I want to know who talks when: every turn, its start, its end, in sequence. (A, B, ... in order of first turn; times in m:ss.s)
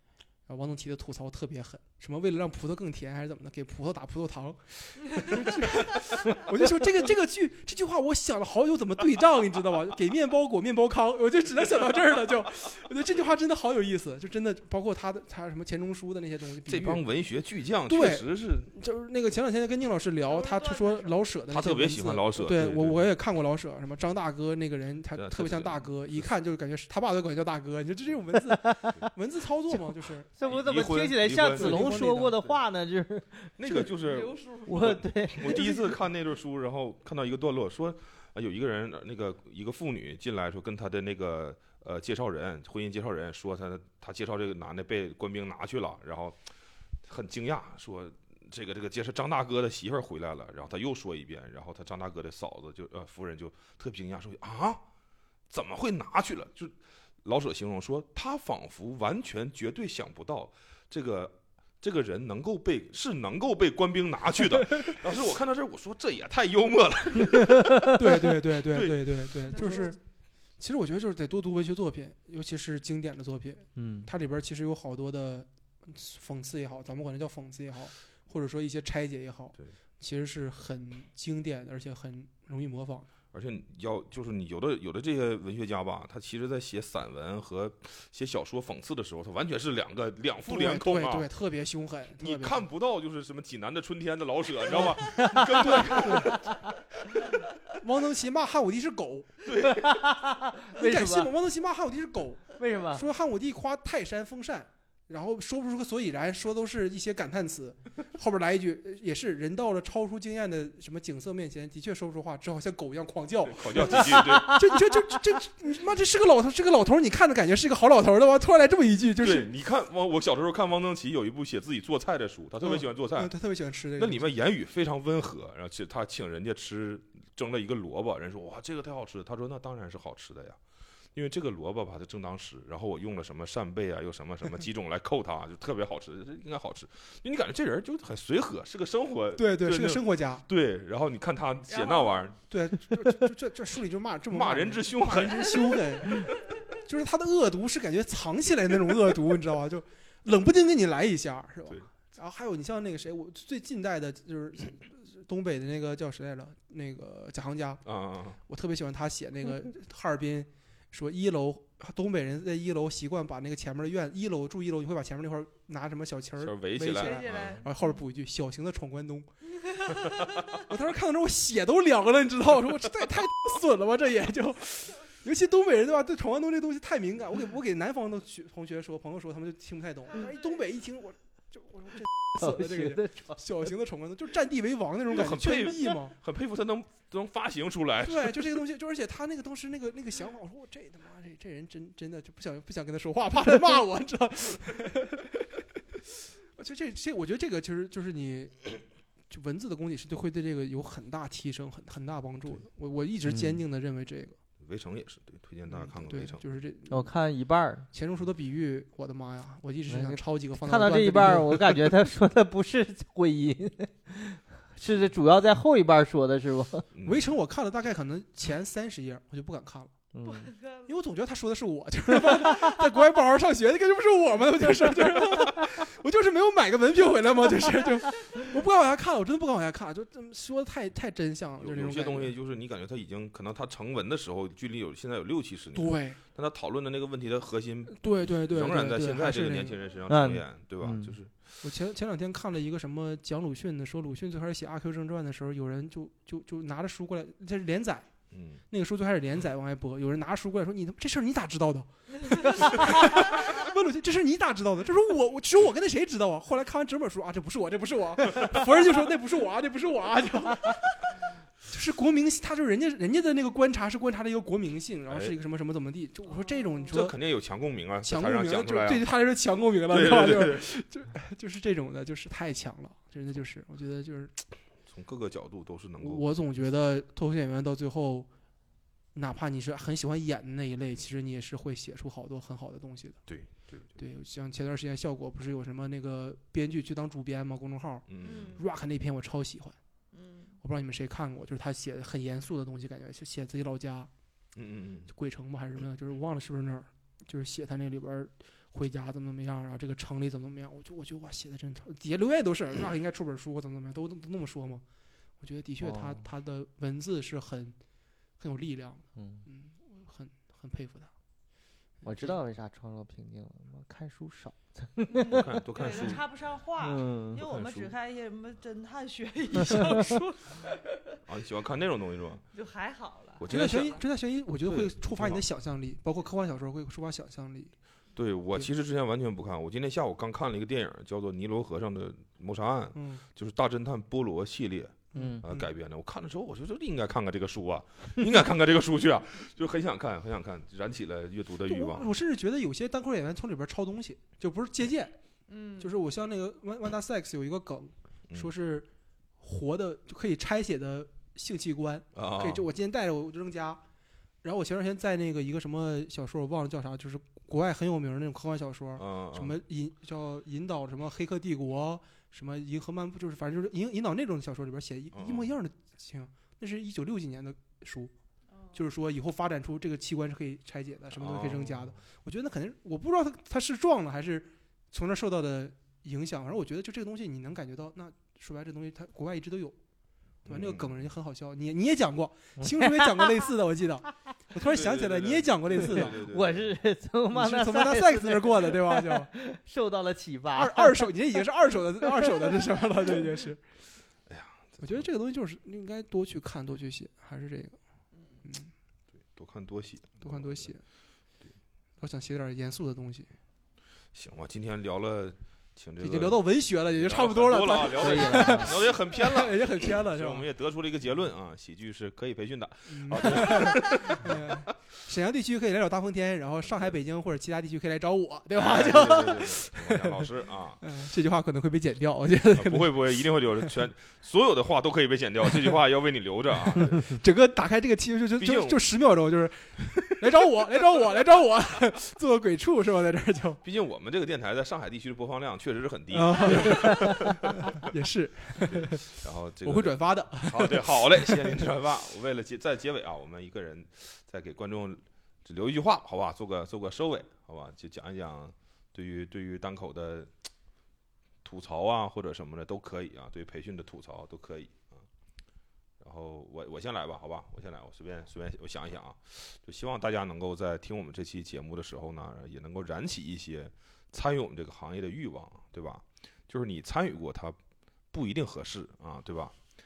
0:00.5-0:17.0 A
0:16.7-0:18.7 B
0:17.9-0:30.3 A
0:20.3-0:21.2 C
0:21.5-0:23.0 B
0:25.1-0:26.3 B
0:28.4-0:29.0 D
0:29.7-0:33.8 D
0:30.4-0:32.6 B
0:31.4-0:32.5 A
0:33.6-0:46.4 B
0:34.0-0:35.0 C
0:34.7-0:36.0 D
0:47.0-0:54.8 B
0:55.5-1:09.8 B
1:08.0-1:10.0 A
1:09.5-1:09.9 C
1:10.6-1:23.1 A
1:13.8-1:14.1 D
1:23.3-1:31.3 B
1:30.5-1:32.6 A
1:32.2-1:36.6 B
1:34.9-1:36.6 D
1:35.6-1:36.4 A
1:37.8-1:39.3 A
1:39.4-1:40.1 B
1:39.6-1:41.3 D
1:40.8-1:59.5 A
1:42.6-1:43.1 D
1:53.4-1:54.7 B
1:54.1-1:54.5 D
1:59.2-2:03.3 B
2:02.6-2:04.3 A
2:04.0-2:10.6 B
2:11.1-2:22.4 B
2:19.4-2:20.4 A
2:21.7-2:22.3 C
2:22.5-2:37.8 A
2:24.3-2:26.3 B
2:37.8-2:38.4 B
2:38.5-2:49.3 A
2:46.4-2:47.6 B
2:46.9-2:48.0 C
2:49.7-2:50.5 C
2:50.6-3:06.2 A
3:02.4-3:03.4 D
3:05.1-3:08.6 B
3:08.0-3:15.5 A
3:16.6-3:24.4 A
3:23.3-3:23.6 D
3:24.6-3:26.4 B
3:25.7-3:27.1 A
3:26.9-3:27.9 D
3:27.9-3:31.9 A
3:29.9-3:36.9 D
3:36.9-3:37.3 B
3:37.0-3:40.0 A
3:40.1-3:40.5 D
3:40.2-3:40.9 C
3:40.9-3:52.4 A
3:51.6-4:01.3 B
3:55.8-3:56.2 A
3:57.9-3:59.8 A
4:00.1-4:01.2 D
4:01.6-4:08.1 A
4:08.3-4:08.6 B
4:08.7-4:20.9 A
4:21.7-4:27.2 A
4:25.1-4:25.3 B
4:26.3-4:26.9 C
4:26.9-4:29.1 B
4:28.0-4:34.4 A
4:29.9-4:30.7 B
4:34.9-4:36.2 B
4:36.0-4:38.3 A
4:39.1-4:43.2 A
4:43.3-4:44.0 B
4:44.0-4:49.8 A
4:48.1-4:48.6 B
4:48.2-4:48.6 C
4:50.1-4:50.5 C
4:50.6-4:54.1 A
4:54.6-4:55.1 B
4:55.1-5:04.8 A
5:05.4-5:07.8 A
5:05.8-5:06.3 D
5:08.4-5:11.1 A
5:09.2-5:09.4 D
5:12.0-5:12.4 A
5:12.0-5:16.2 D
5:15.2-5:16.2 B
5:15.5-5:21.2 C
5:16.8-5:17.9 D
5:19.6-5:19.9 D
5:21.3-5:22.4 B
5:22.5-5:24.0 C
5:23.4-5:24.0 B
5:23.5-5:27.7 A
5:24.7-5:25.4 B
5:28.2-5:42.1 B
5:32.9-5:33.2 A
5:35.1-5:35.6 A
5:35.2-5:35.4 D
5:41.6-5:45.2 A
5:45.5-5:46.0 C
5:45.8-5:48.9 A
5:49.4-5:53.8 A
5:52.2-5:52.7 B
5:54.4-6:08.1 A
5:59.0-5:59.6 B
6:05.1-6:05.5 B
6:08.5-6:08.8 C
6:08.7-6:19.8 A
6:11.1-6:12.0 B
6:20.4-6:26.2 A
6:20.5-6:20.9 B
6:22.6-6:23.4 D
6:24.6-6:26.8 B
6:25.8-6:31.1 D
6:27.3-6:29.3 A
6:30.5-6:33.6 A
6:32.2-6:33.1 D
6:34.3-6:35.1 B
6:34.8-6:37.8 A
6:38.4-6:38.7 A
6:39.3-6:40.7 B
6:40.2-6:40.8 A
6:42.0-6:43.3 A
6:44.1-6:54.6 B
6:46.0-6:50.5 A
6:48.0-6:48.8 D
6:52.9-7:00.3 A
6:56.6-6:57.0 B
6:58.6-7:00.8 B
7:00.8-7:03.1 A
7:02.6-7:07.2 B
7:06.8-7:13.6 A
7:08.4-7:08.8 B
7:13.6-7:17.8 B
7:16.1-7:19.1 A
7:18.6-7:30.3 B
7:19.6-7:21.7 A
7:31.4-7:35.1 B
7:36.0-7:47.6 B
7:48.1-7:49.6 B